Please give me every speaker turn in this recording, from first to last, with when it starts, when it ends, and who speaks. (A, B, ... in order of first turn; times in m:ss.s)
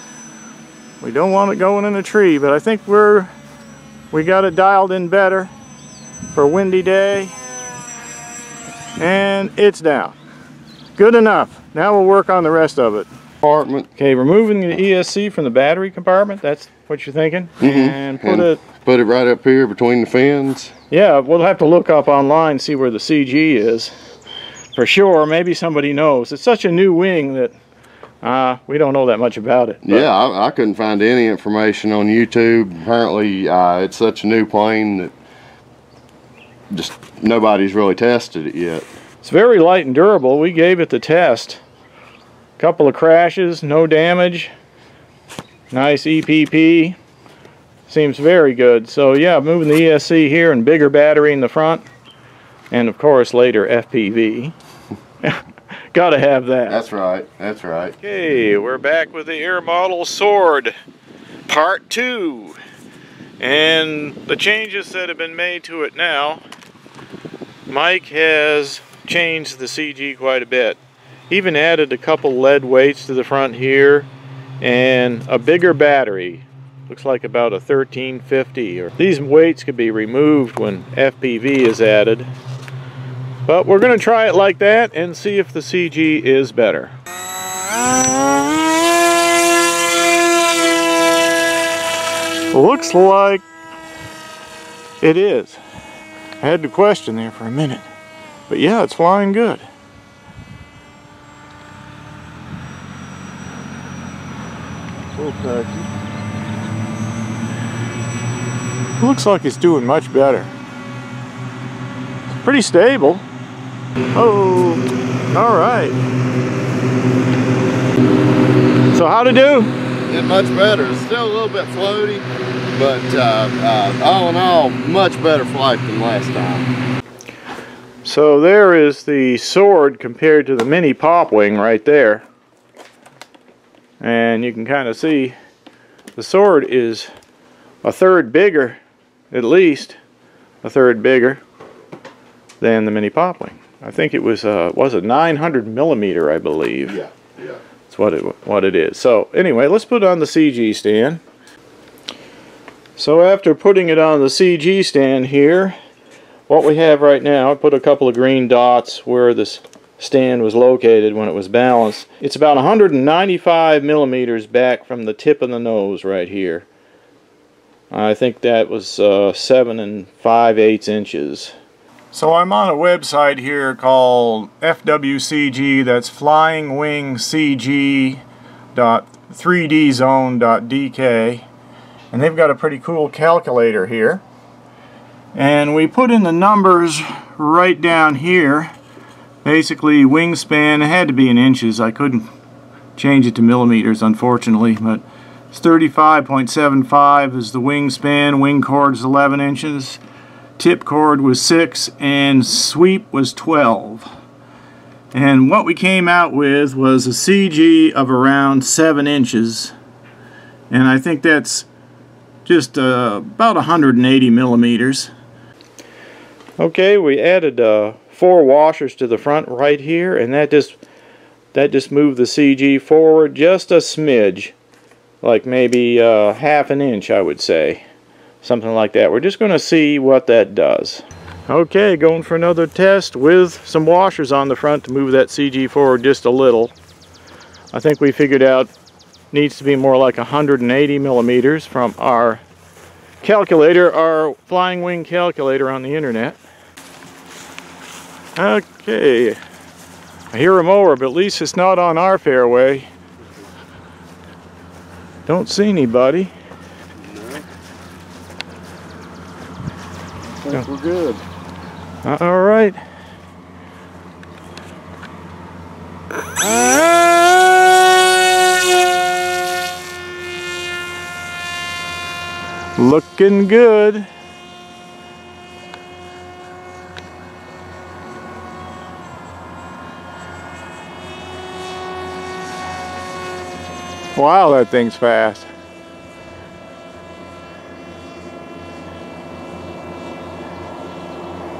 0:01.0-0:03.3 A
0:04.1-0:05.5 A
0:06.3-0:07.3 A
0:09.0-0:10.1 A
0:11.0-0:13.1 A
0:13.4-0:13.9 B
0:14.0-0:18.6 A
0:17.6-0:20.7 B
0:20.9-0:23.9 A
0:24.7-0:27.5 A
0:28.2-0:30.1 A
0:29.8-0:35.1 B
0:36.7-0:38.8 B
0:39.2-0:41.6 A
0:42.6-0:44.5 A
0:45.7-0:47.0 A
0:47.9-0:51.8 A
0:52.7-0:54.5 A
0:55.9-0:56.8 A
0:56.7-0:57.9 B
0:58.0-1:00.7 A
1:01.5-1:02.6 A
1:03.4-1:06.4 A
1:07.7-1:14.1 A
1:14.6-1:22.3 A
1:23.4-1:26.9 A
1:32.5-1:33.4 A
1:35.0-1:35.6 A
1:36.4-1:37.9 A
1:38.5-1:39.6 A
1:45.2-1:45.9 B
1:49.0-1:50.5 A
1:52.4-1:53.2 A
1:54.1-1:56.0 A
1:58.9-1:59.7 A
2:00.1-2:06.7 B
2:08.0-2:12.2 A
2:14.0-2:15.4 A
2:16.2-2:17.1 A
2:17.8-2:18.8 A
2:19.3-2:20.0 A
2:20.6-2:21.4 A
2:22.6-2:27.0 A
2:27.0-2:27.6 B
2:27.9-2:31.2 A
2:33.0-2:35.8 A
2:36.5-2:46.7 A
2:47.9-2:51.5 A
2:52.1-2:58.2 A
2:58.7-3:01.5 A
3:02.1-3:04.2 A
3:05.3-3:08.7 A
3:09.4-3:12.2 A
3:13.0-3:20.0 A
3:20.6-3:24.1 A
3:25.1-3:29.7 A
3:30.7-3:31.7 A
3:32.4-3:35.1 A
3:36.6-3:40.8 A
3:41.5-3:44.5 A
3:45.2-3:47.8 A
3:48.4-3:56.7 A
3:57.7-3:58.7 A
3:59.3-4:02.4 A
4:03.2-4:06.4 A
4:08.4-4:09.4 A
4:10.3-4:12.9 A
4:15.2-4:16.3 A
4:17.0-4:17.4 B
4:20.4-4:21.2 B
4:22.0-4:22.8 A
4:32.8-4:34.1 A
4:44.1-4:45.5 A